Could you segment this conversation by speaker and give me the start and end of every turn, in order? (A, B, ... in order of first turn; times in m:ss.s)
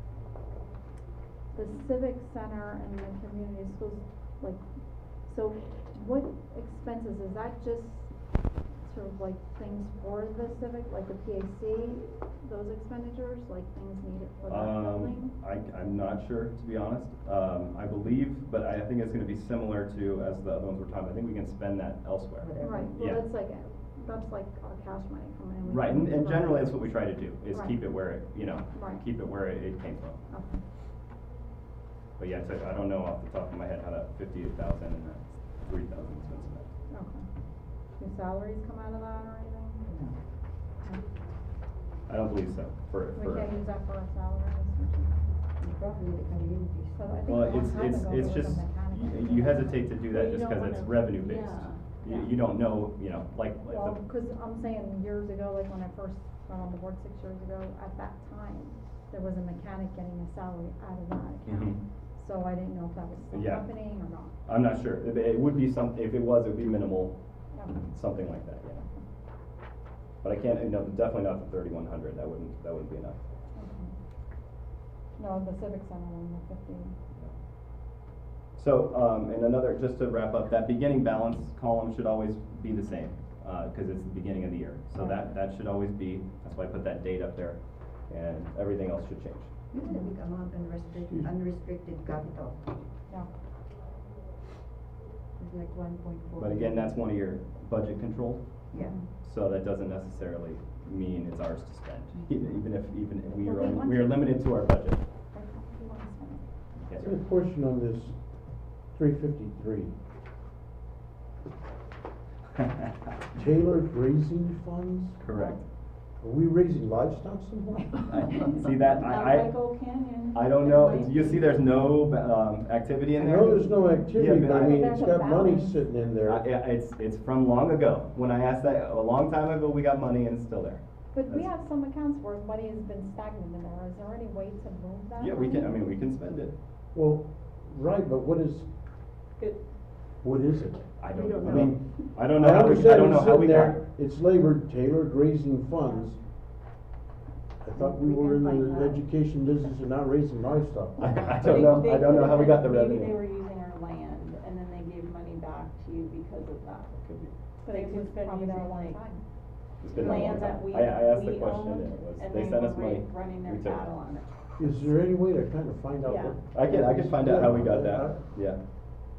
0:01.5-0:04.6 A
0:05.3-0:08.1 A
0:08.9-0:15.3 A
0:14.5-0:23.2 B
0:22.4-0:23.0 C
0:22.6-0:26.8 A
0:25.7-0:30.2 B
0:27.5-0:27.8 A
0:28.7-0:29.0 A
0:30.3-0:30.6 A
0:32.2-0:36.7 B
0:36.9-0:37.2 A
0:38.0-0:39.8 A
0:39.9-0:40.2 C
0:42.1-0:43.5 B
0:43.2-0:45.1 A
0:45.6-0:47.3 C
0:47.0-0:49.9 A
0:47.3-0:54.0 B
0:50.1-0:52.3 D
0:53.7-1:04.3 A
1:01.5-1:01.8 B
1:03.3-1:03.7 B
1:04.4-1:07.2 B
1:07.5-1:07.8 A
1:07.8-1:08.8 B
1:10.2-1:13.2 B
1:13.6-1:13.9 A
1:15.2-1:17.0 A
1:18.6-1:29.5 B
1:29.7-1:32.8 C
1:35.4-1:37.0 C
1:36.4-1:38.4 B
1:38.7-1:39.0 C
1:39.2-1:45.0 B
1:43.4-1:44.2 A
1:45.3-1:46.4 A
1:46.8-1:47.2 B
1:47.0-1:48.2 E
1:48.9-1:49.9 E
1:53.3-1:55.2 E
1:55.2-1:55.6 B
1:56.2-1:58.2 E
1:58.1-1:59.5 B
1:58.9-2:01.7 D
2:00.3-2:05.1 B
2:03.2-2:06.4 E
2:04.5-2:05.8 A
2:06.2-2:11.5 B
2:11.1-2:15.8 A
2:15.2-2:16.5 B
2:16.9-2:18.7 E
2:20.2-2:20.9 E
2:21.0-2:23.8 B
2:21.4-2:26.2 E
2:27.6-2:31.8 E
2:27.8-2:29.0 C
2:31.0-2:33.2 B
2:31.2-2:36.9 D
2:36.9-2:37.3 B
2:37.6-2:39.0 D
2:37.6-2:39.2 A
2:39.8-2:43.9 B
2:40.0-2:44.3 D
2:44.6-2:48.2 E
2:46.0-2:46.4 D
2:46.5-2:48.6 B